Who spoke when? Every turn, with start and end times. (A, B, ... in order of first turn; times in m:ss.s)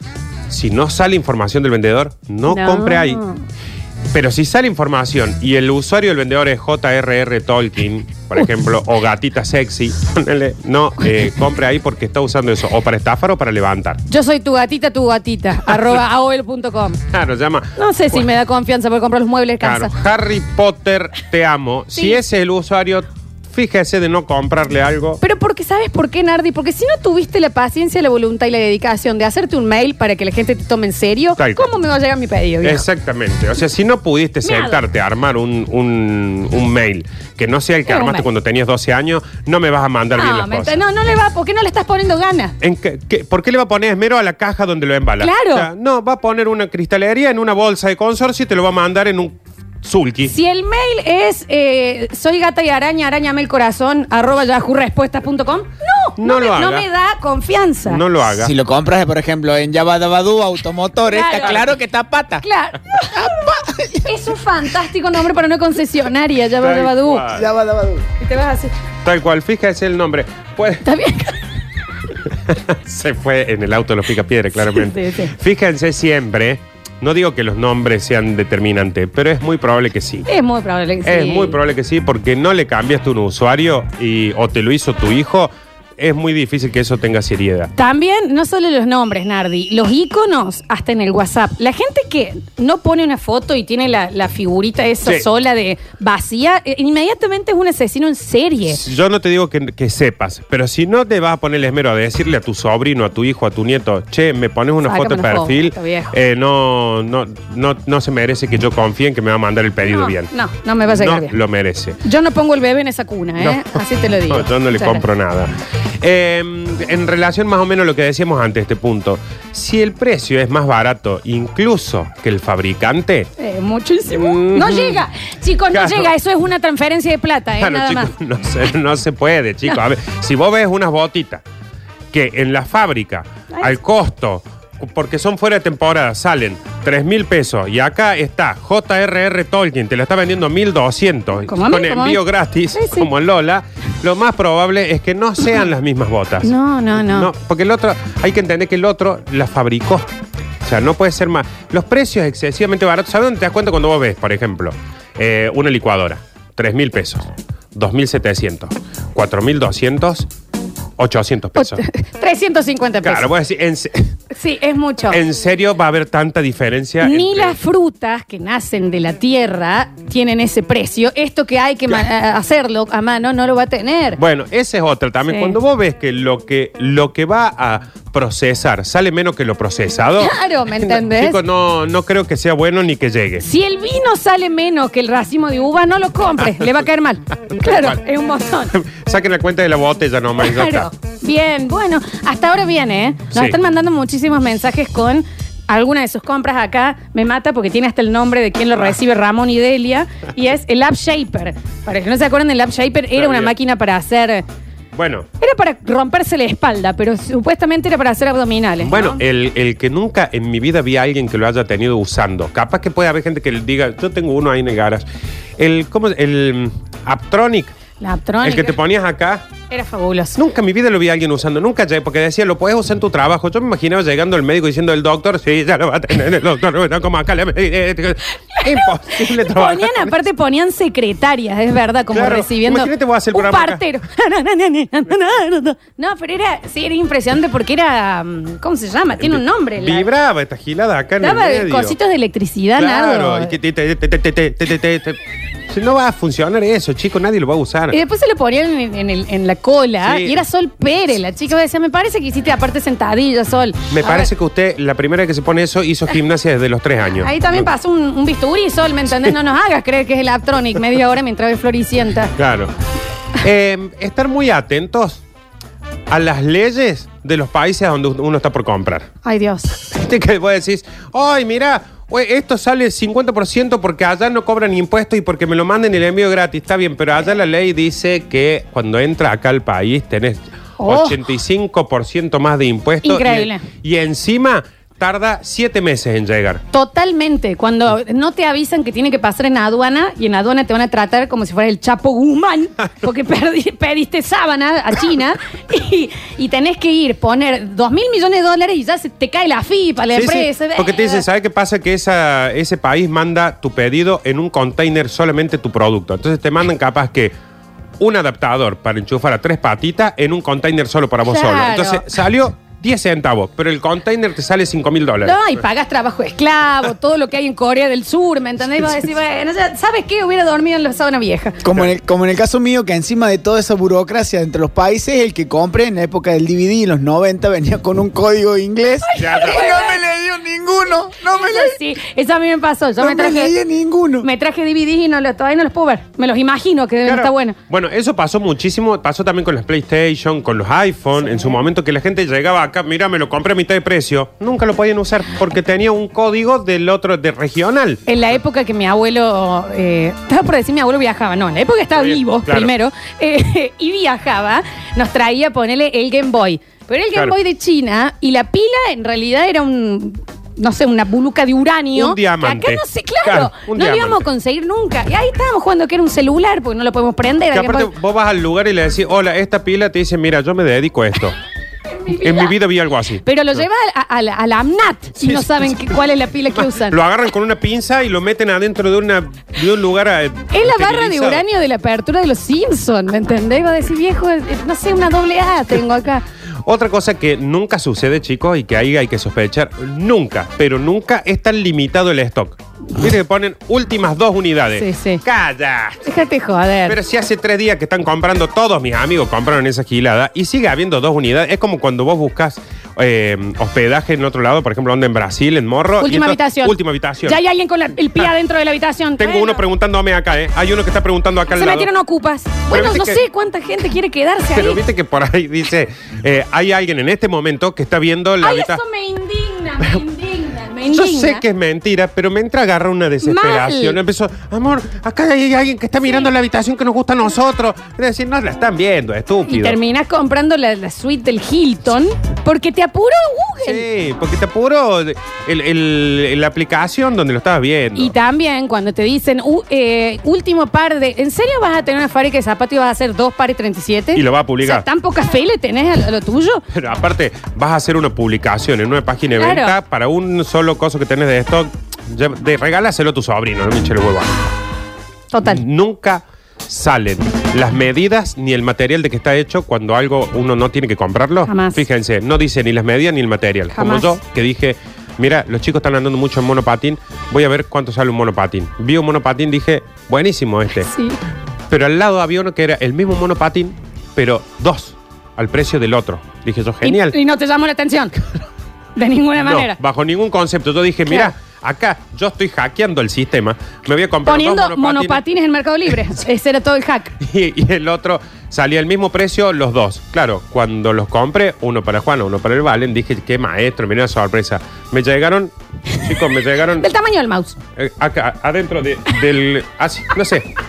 0:00.5-0:03.2 A
0:02.5-0:03.4 B
0:04.1-0:14.0 A
0:14.1-0:17.0 B
0:15.7-0:16.0 A
0:17.1-0:18.3 A
0:17.8-0:19.9 B
0:19.6-0:25.2 A
0:25.2-0:32.8 B
0:31.4-0:31.7 A
0:32.6-0:40.8 A
0:34.4-0:34.8 B
0:37.9-0:38.2 B
0:40.2-0:42.6 B
0:42.6-0:50.3 A
0:45.2-0:45.7 B
0:50.3-0:58.0 B
0:56.2-0:56.8 A
0:57.9-0:58.5 A
0:58.4-1:02.4 C
1:01.1-1:01.7 B
1:02.4-1:03.2 B
1:03.1-1:04.0 C
1:04.0-1:07.2 B
1:06.6-1:07.5 A
1:07.3-1:08.0 C
1:08.2-1:08.7 B
1:09.0-1:10.8 A
1:10.8-1:11.4 B
1:12.5-1:20.3 A
1:14.6-1:15.3 B
1:20.3-1:21.6 B
1:21.0-1:27.7 A
1:27.8-1:38.8 B
1:38.7-1:50.3 A
1:44.8-1:46.1 B
1:49.8-1:51.3 B
1:50.9-1:52.0 A
1:52.0-1:55.0 B
1:53.4-2:03.3 A
2:03.4-2:08.1 B
2:04.1-2:05.0 A
2:05.7-2:06.1 A
2:07.6-2:11.4 A
2:12.1-2:30.0 A
2:21.5-2:22.2 B
2:22.7-2:23.1 B
2:26.4-2:27.3 B
2:30.6-2:40.3 A
2:41.0-2:41.8 A
2:41.6-2:43.3 B
2:43.0-2:44.1 A
2:44.3-2:45.2 B
2:45.1-2:47.6 A
2:47.0-2:54.2 B
2:54.2-3:03.4 A
2:55.3-2:55.6 B
3:00.2-3:01.4 B
3:03.4-3:08.7 B
3:07.6-3:08.0 A
3:08.7-3:10.9 A
3:10.4-3:24.4 B
3:23.2-3:23.5 A
3:24.9-3:25.3 A
3:25.4-3:29.2 B
3:28.8-3:35.0 A
3:35.6-3:37.7 A
3:38.0-3:38.8 B
3:38.4-3:39.4 A
3:39.7-3:40.4 B
3:40.4-3:50.2 A
3:48.7-4:00.0 B
3:52.1-3:53.8 A
3:59.2-4:02.0 A
4:01.2-4:03.5 B
4:02.8-4:05.2 A
4:05.7-4:08.0 A
4:07.9-4:14.3 B
4:10.0-4:10.4 A
4:13.9-4:17.7 A
4:17.2-4:22.3 B
4:22.4-4:22.7 A
4:23.4-4:25.2 A
4:26.1-4:29.1 A
4:29.2-4:29.8 B
4:29.9-4:46.6 A
4:40.8-4:41.2 B
4:43.0-4:43.6 B
4:46.7-5:01.2 B
5:00.1-5:07.3 A
5:08.0-5:15.6 A
5:11.3-5:12.0 B
5:15.2-5:21.6 B
5:21.6-5:31.8 C
5:29.1-5:30.0 B
5:29.2-5:29.6 A
5:31.2-5:33.5 B
5:33.0-5:34.3 C
5:34.2-5:37.6 B
5:37.0-5:48.0 A
5:48.1-6:07.9 B
5:52.0-5:52.7 A
6:01.9-6:04.2 A
6:07.5-6:11.4 A
6:12.0-6:12.5 B
6:12.2-6:13.6 A
6:13.2-6:17.0 B
6:15.2-6:16.0 A
6:16.5-6:21.4 A
6:20.5-6:26.2 B
6:26.6-6:36.0 A
6:34.7-6:35.2 B
6:36.0-6:37.0 B
6:36.9-6:47.4 A
6:46.0-6:49.6 B
6:49.2-6:51.9 A
6:51.5-6:54.8 B
6:52.7-6:53.2 A
6:54.5-6:58.8 A
6:58.4-7:01.4 B
7:00.9-7:09.8 A
7:03.2-7:04.0 B
7:09.5-7:13.8 B
7:13.6-7:18.1 A
7:18.0-7:26.6 B
7:24.1-7:24.8 A
7:26.7-7:34.3 A
7:29.4-7:29.7 B
7:35.3-7:35.6 B
7:35.4-7:50.9 A
7:41.5-7:41.8 B
7:43.7-7:44.1 B
7:50.8-7:51.2 B
7:51.7-7:57.2 A
7:56.8-7:58.1 B
7:59.0-7:59.8 B
7:59.4-8:05.2 A
8:04.2-8:07.1 B
8:07.2-8:16.9 A
8:16.8-8:17.6 B
8:17.8-8:20.5 A